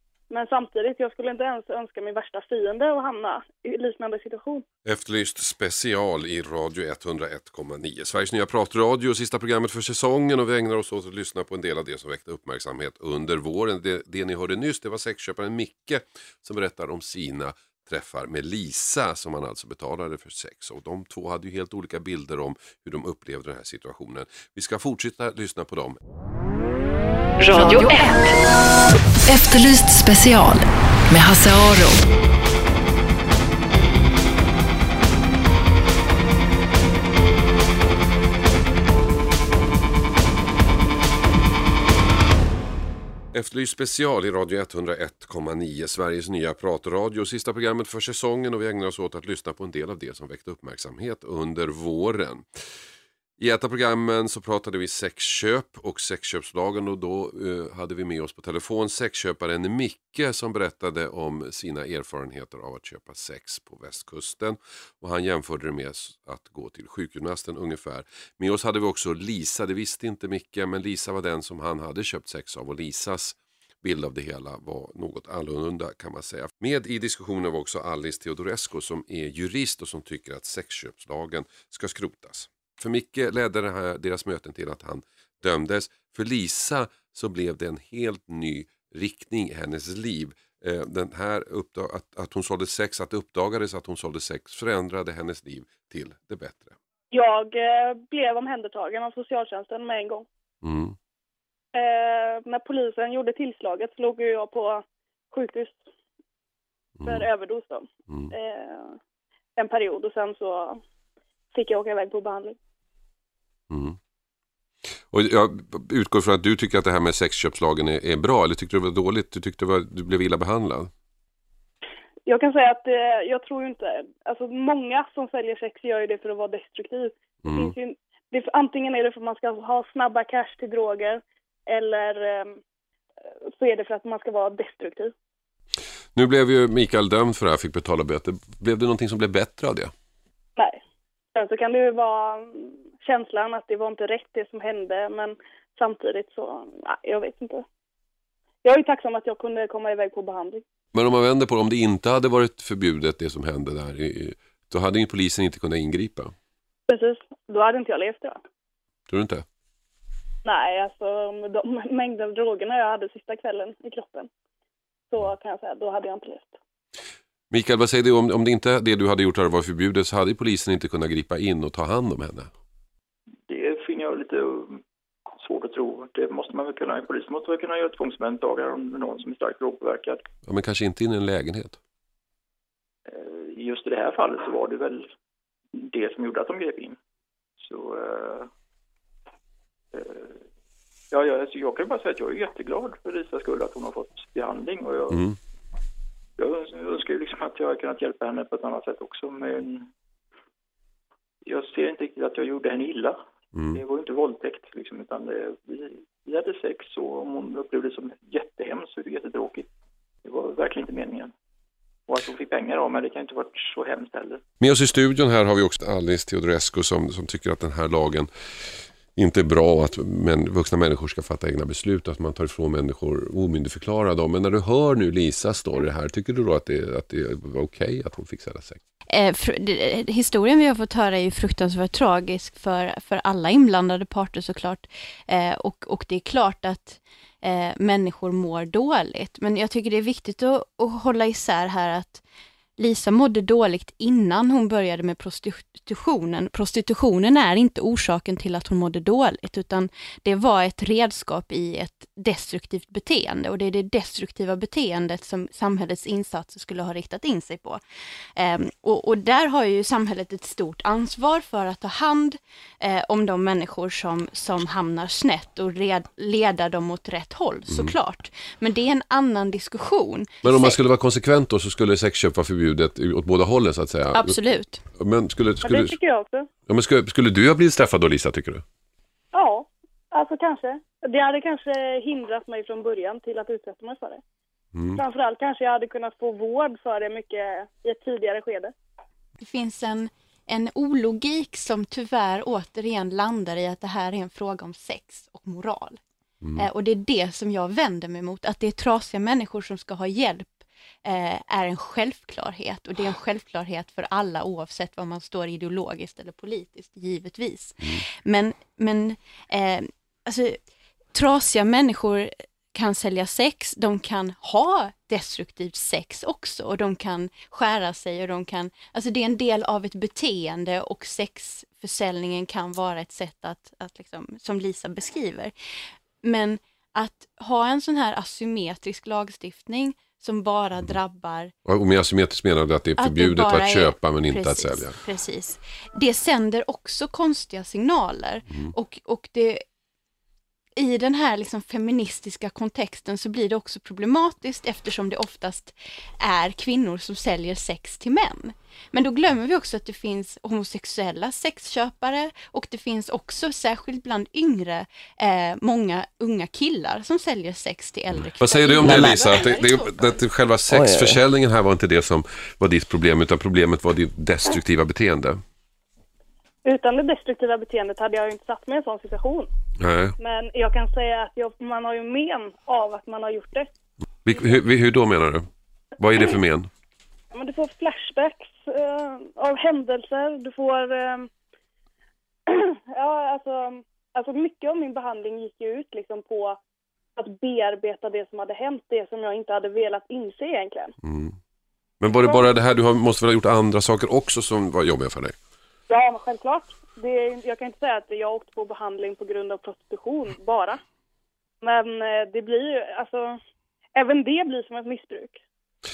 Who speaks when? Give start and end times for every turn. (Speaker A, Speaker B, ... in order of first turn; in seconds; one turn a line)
Speaker A: 0.3-4.6
Speaker B: 4.8-26.0
Speaker C: 27.4-28.3
Speaker C: 29.3-32.0
Speaker B: 43.3-52.4
Speaker B: 53.4-96.8
Speaker A: 97.1-100.3
Speaker B: 100.6-101.0
Speaker A: 101.7-105.8
Speaker B: 107.0-107.3
Speaker A: 107.0-109.0
Speaker A: 109.6-110.8
Speaker A: 111.5-112.5
Speaker B: 113.7-114.0
Speaker B: 115.1-120.9
Speaker A: 122.2-132.6
Speaker B: 127.4-127.7
Speaker A: 133.5-135.1
Speaker B: 136.1-139.9
Speaker A: 140.6-140.8
Speaker A: 141.3-147.6
Speaker A: 148.6-150.6
Speaker B: 150.9-156.3
Speaker A: 156.9-158.4
Speaker B: 159.1-159.4
Speaker A: 160.4-164.3
Speaker A: 165.1-166.6
Speaker B: 167.5-172.5
Speaker D: 173.5-174.8
Speaker D: 175.4-180.2
Speaker B: 180.4-181.8
Speaker D: 183.1-185.1
Speaker D: 185.8-187.0
Speaker D: 187.6-188.5
Speaker D: 189.9-190.4
Speaker D: 191.1-195.2
Speaker B: 195.1-195.4
Speaker D: 196.4-199.9
Speaker D: 201.4-203.2
Speaker B: 203.5-203.8
Speaker D: 203.7-209.7
Speaker D: 210.2-211.3
Speaker D: 212.1-214.4
Speaker B: 214.6-228.8
Speaker E: 229.1-242.2
Speaker E: 242.8-257.8
Speaker E: 258.4-270.8
Speaker B: 267.7-267.9
Speaker B: 270.4-274.4
Speaker E: 274.1-274.8
Speaker B: 274.9-276.0
Speaker A: 275.6-276.5
Speaker B: 276.7-278.6
Speaker A: 279.3-284.2
Speaker B: 284.7-285.0
Speaker A: 284.9-288.7
Speaker E: 289.4-296.0
Speaker B: 296.4-296.7
Speaker E: 296.6-310.6
Speaker E: 311.1-325.5
Speaker E: 326.2-331.5
Speaker B: 331.6-335.0
Speaker E: 333.0-339.6
Speaker E: 340.8-360.2
Speaker B: 358.3-365.4
Speaker C: 358.9-359.2
Speaker C: 360.7-361.2
Speaker A: 366.6-369.5
Speaker B: 369.8-370.1
Speaker A: 370.2-373.7
Speaker B: 374.2-376.7
Speaker A: 377.3-381.3
Speaker A: 382.5-386.6
Speaker A: 387.2-390.9
Speaker B: 391.0-391.4
Speaker B: 392.0-395.4
Speaker A: 392.2-392.5
Speaker A: 395.9-400.8
Speaker A: 401.6-403.4
Speaker A: 403.9-405.4